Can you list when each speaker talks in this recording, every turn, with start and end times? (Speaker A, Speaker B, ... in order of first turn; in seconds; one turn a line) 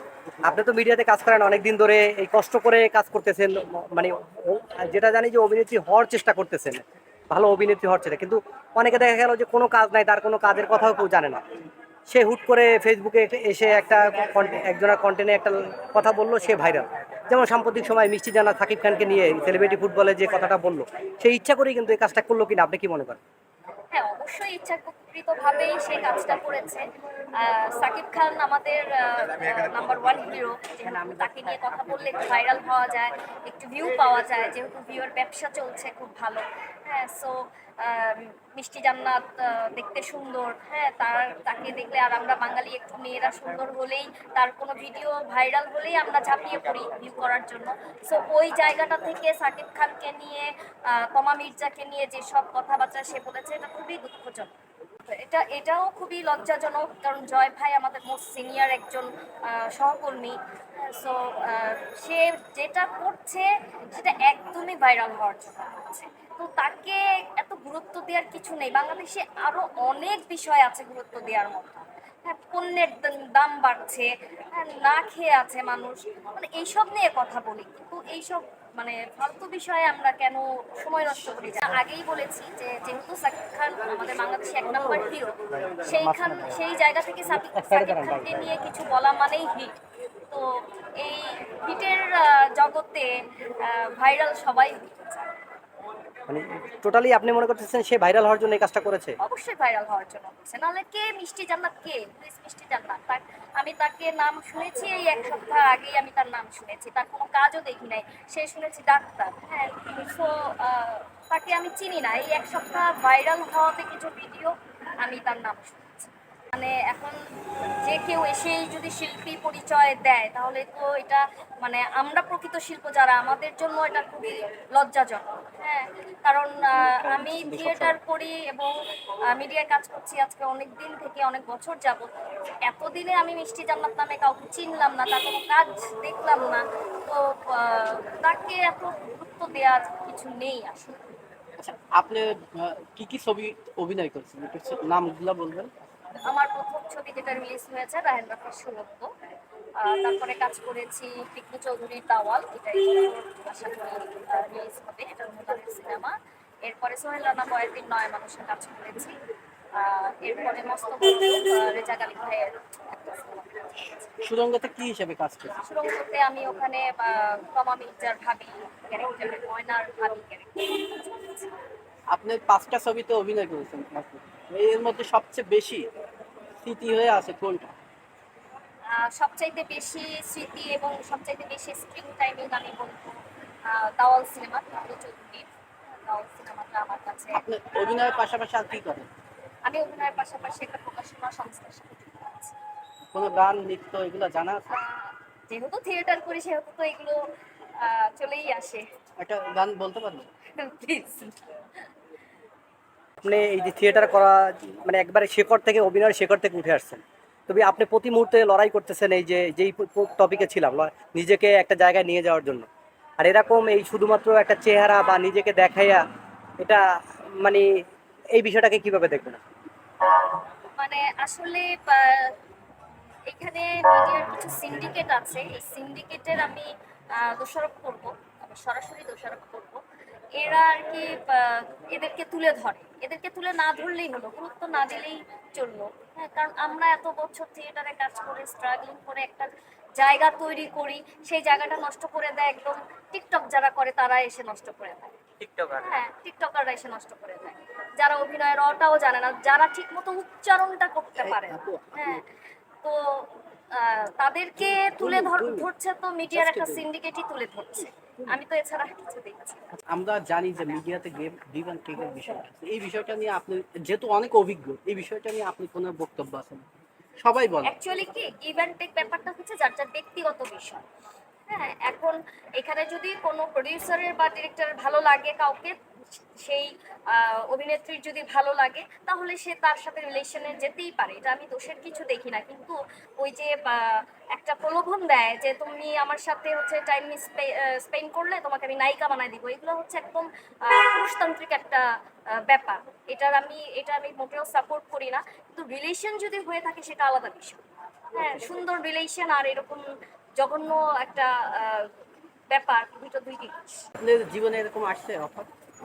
Speaker A: 0.4-11.4
Speaker A: 12.1-23.2
Speaker B: 23.9-54.5
Speaker B: 55.1-89.7
Speaker A: 85.5-86.6
Speaker A: 87.3-88.5
Speaker B: 91.0-95.3
Speaker A: 96.3-99.2
Speaker B: 99.2-117.2
Speaker B: 117.8-128.7
Speaker C: 127.2-128.0
Speaker B: 129.3-132.1
Speaker B: 132.6-141.1
Speaker C: 141.6-145.8
Speaker B: 146.3-149.1
Speaker B: 149.8-159.2
Speaker B: 159.8-164.1
Speaker C: 164.2-165.5
Speaker B: 165.6-171.5
Speaker C: 172.1-175.9
Speaker C: 176.6-177.7
Speaker B: 178.9-187.4
Speaker C: 187.3-189.1
Speaker B: 189.6-192.6
Speaker C: 193.1-194.8
Speaker B: 194.7-197.2
Speaker B: 197.8-198.8
Speaker C: 199.2-200.3
Speaker B: 200.6-201.6
Speaker A: 203.2-212.7
Speaker A: 213.2-216.0
Speaker A: 216.6-216.8
Speaker A: 217.4-217.7
Speaker A: 218.3-219.4
Speaker B: 220.8-222.4
Speaker B: 223.3-229.8
Speaker B: 230.4-252.2
Speaker C: 251.2-252.2
Speaker B: 252.8-259.7
Speaker C: 254.6-255.7
Speaker C: 256.3-256.9
Speaker C: 259.8-266.7
Speaker C: 267.2-267.8
Speaker B: 267.6-270.8
Speaker B: 271.5-297.6
Speaker B: 298.1-299.8
Speaker C: 298.2-298.5
Speaker B: 300.4-301.9
Speaker B: 302.5-303.8
Speaker C: 304.0-305.5